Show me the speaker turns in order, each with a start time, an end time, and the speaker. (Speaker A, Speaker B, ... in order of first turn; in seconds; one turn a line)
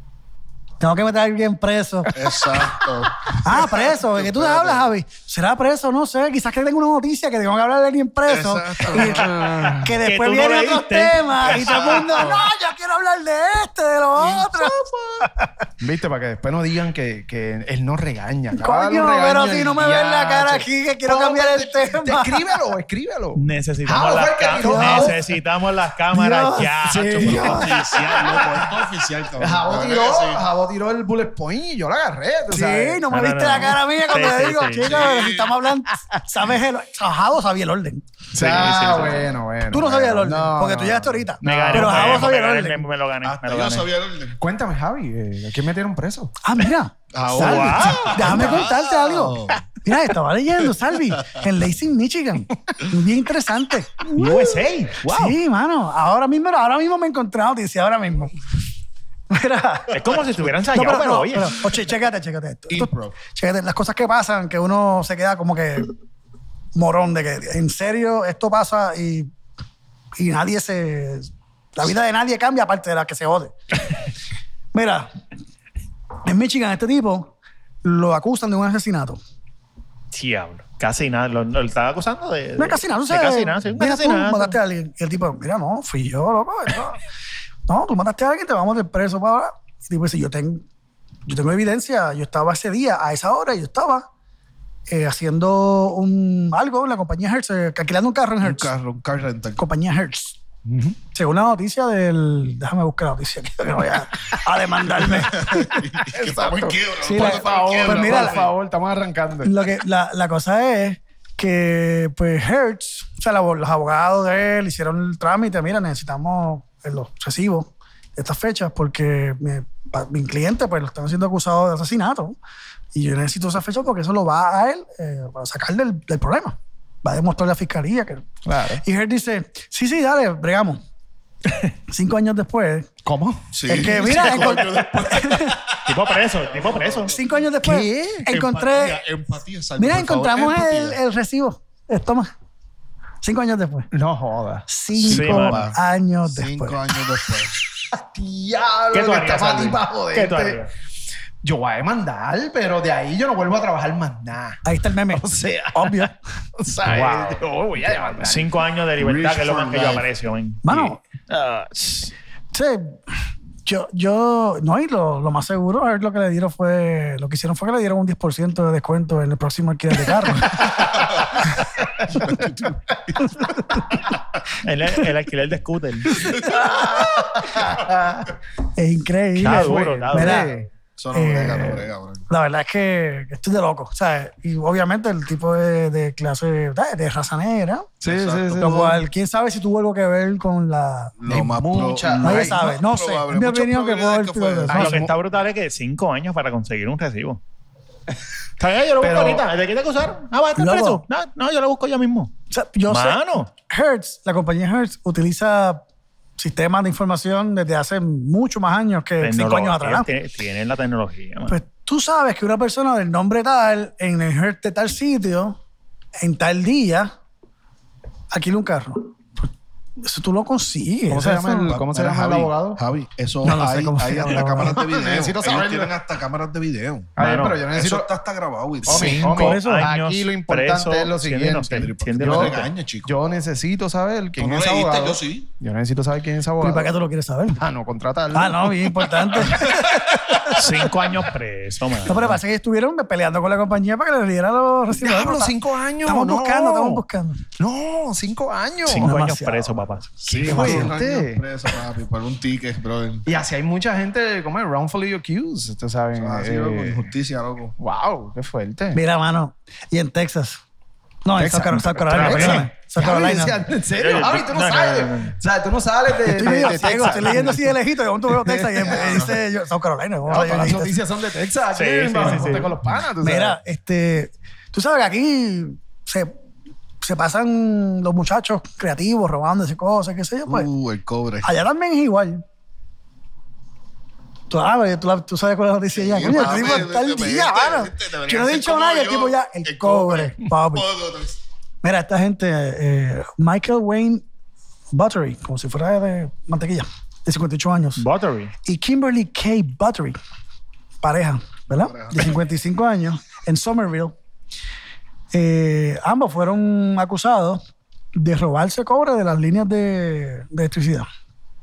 Speaker A: 0.8-2.2
Speaker B: 2.1-4.9
Speaker A: 3.4-15.5
Speaker B: 8.3-9.6
Speaker C: 8.9-9.9
Speaker D: 10.0-12.3
Speaker B: 11.5-12.5
Speaker B: 14.2-15.2
Speaker C: 15.8-25.2
Speaker A: 18.5-22.6
Speaker D: 23.4-27.6
Speaker A: 24.6-25.2
Speaker A: 26.1-27.7
Speaker C: 26.8-28.7
Speaker B: 27.2-30.4
Speaker C: 29.4-33.0
Speaker A: 32.5-38.0
Speaker D: 33.1-34.9
Speaker B: 34.8-35.6
Speaker C: 38.3-42.3
Speaker D: 38.4-39.3
Speaker A: 39.7-42.8
Speaker D: 41.4-43.9
Speaker B: 43.2-44.4
Speaker C: 44.4-46.3
Speaker A: 46.4-58.3
Speaker B: 47.1-49.6
Speaker D: 47.3-48.6
Speaker C: 48.4-48.6
Speaker B: 51.1-51.5
Speaker D: 54.1-55.4
Speaker A: 59.3-60.2
Speaker D: 59.9-61.7
Speaker A: 60.7-65.9
Speaker B: 62.7-63.2
Speaker A: 66.8-69.3
Speaker A: 70.2-73.5
Speaker A: 74.7-75.1
Speaker A: 76.2-77.3
Speaker A: 77.8-79.2
Speaker D: 80.1-84.6
Speaker A: 82.6-87.0
Speaker A: 87.7-90.6
Speaker A: 91.3-94.1
Speaker A: 94.9-98.7
Speaker B: 98.4-99.6
Speaker A: 99.6-100.4
Speaker C: 100.7-101.0
Speaker A: 101.1-105.7
Speaker B: 105.0-108.5
Speaker C: 106.0-109.6
Speaker A: 107.0-108.5
Speaker A: 109.4-122.4
Speaker A: 122.9-128.3
Speaker C: 128.4-128.8
Speaker A: 128.8-130.8
Speaker A: 131.9-132.9
Speaker C: 133.1-134.6
Speaker B: 133.5-137.3
Speaker A: 133.7-135.6
Speaker D: 135.9-137.2
Speaker A: 137.1-139.0
Speaker C: 137.6-138.3
Speaker B: 138.3-141.0
Speaker A: 139.8-142.3
Speaker A: 143.2-143.9
Speaker C: 143.9-144.7
Speaker A: 144.7-146.8
Speaker B: 145.0-147.6
Speaker D: 145.0-145.7
Speaker C: 147.9-150.6
Speaker D: 148.9-150.7
Speaker C: 151.4-158.5
Speaker A: 154.7-156.1
Speaker D: 156.9-157.4
Speaker D: 158.2-162.1
Speaker B: 159.0-160.1
Speaker A: 160.6-161.0
Speaker A: 162.5-163.0
Speaker A: 163.7-170.7
Speaker B: 171.2-171.4
Speaker C: 171.8-172.4
Speaker B: 172.0-173.5
Speaker A: 173.4-173.8
Speaker D: 174.6-176.2
Speaker C: 176.3-178.3
Speaker B: 176.3-176.6
Speaker A: 178.8-180.5
Speaker D: 179.4-180.6
Speaker C: 179.4-180.7
Speaker B: 181.0-182.3
Speaker A: 181.1-187.9
Speaker C: 188.0-189.0
Speaker B: 188.1-188.8
Speaker A: 188.6-191.5
Speaker B: 191.2-195.1
Speaker C: 191.3-192.7
Speaker A: 192.2-195.1
Speaker D: 194.7-197.4
Speaker C: 194.7-195.1
Speaker D: 198.6-202.3
Speaker C: 199.0-199.4
Speaker A: 200.6-201.0
Speaker A: 202.5-205.8
Speaker D: 202.9-203.5
Speaker A: 206.4-210.1
Speaker D: 209.2-211.6
Speaker A: 211.5-215.6
Speaker A: 216.2-217.1
Speaker A: 218.3-219.5
Speaker A: 220.0-221.8
Speaker C: 221.1-222.8
Speaker B: 221.7-227.1
Speaker A: 223.4-224.8
Speaker C: 224.4-225.9
Speaker C: 227.2-228.1
Speaker D: 227.2-227.6
Speaker B: 227.7-229.2
Speaker C: 228.9-236.9
Speaker D: 228.9-232.7
Speaker A: 228.9-229.9
Speaker B: 231.7-233.1
Speaker B: 234.4-235.5
Speaker A: 236.6-237.6
Speaker C: 237.6-239.5
Speaker A: 238.3-240.9
Speaker B: 239.4-240.6
Speaker D: 240.6-242.4
Speaker A: 242.1-247.4
Speaker C: 244.9-247.0
Speaker C: 247.6-249.1
Speaker D: 248.9-250.1
Speaker A: 249.0-250.9
Speaker B: 250.2-253.2
Speaker C: 250.3-251.4
Speaker C: 253.3-257.1
Speaker B: 256.2-257.8
Speaker C: 257.8-259.0
Speaker A: 258.9-260.6
Speaker A: 261.2-263.6
Speaker C: 261.4-267.8
Speaker D: 262.1-262.7
Speaker D: 264.0-265.4
Speaker A: 266.2-271.0
Speaker C: 268.3-269.4
Speaker B: 268.9-269.4
Speaker C: 270.3-273.6
Speaker D: 271.8-272.7
Speaker A: 272.2-272.7
Speaker A: 273.2-276.3
Speaker A: 277.0-280.7
Speaker B: 280.5-281.5
Speaker A: 281.4-282.4
Speaker A: 284.5-290.9
Speaker B: 285.9-291.4
Speaker A: 291.8-294.2
Speaker A: 294.9-298.1
Speaker D: 298.0-298.5
Speaker A: 298.6-300.2
Speaker A: 301.0-304.1
Speaker B: 301.8-302.4
Speaker A: 305.3-307.6
Speaker A: 308.2-311.1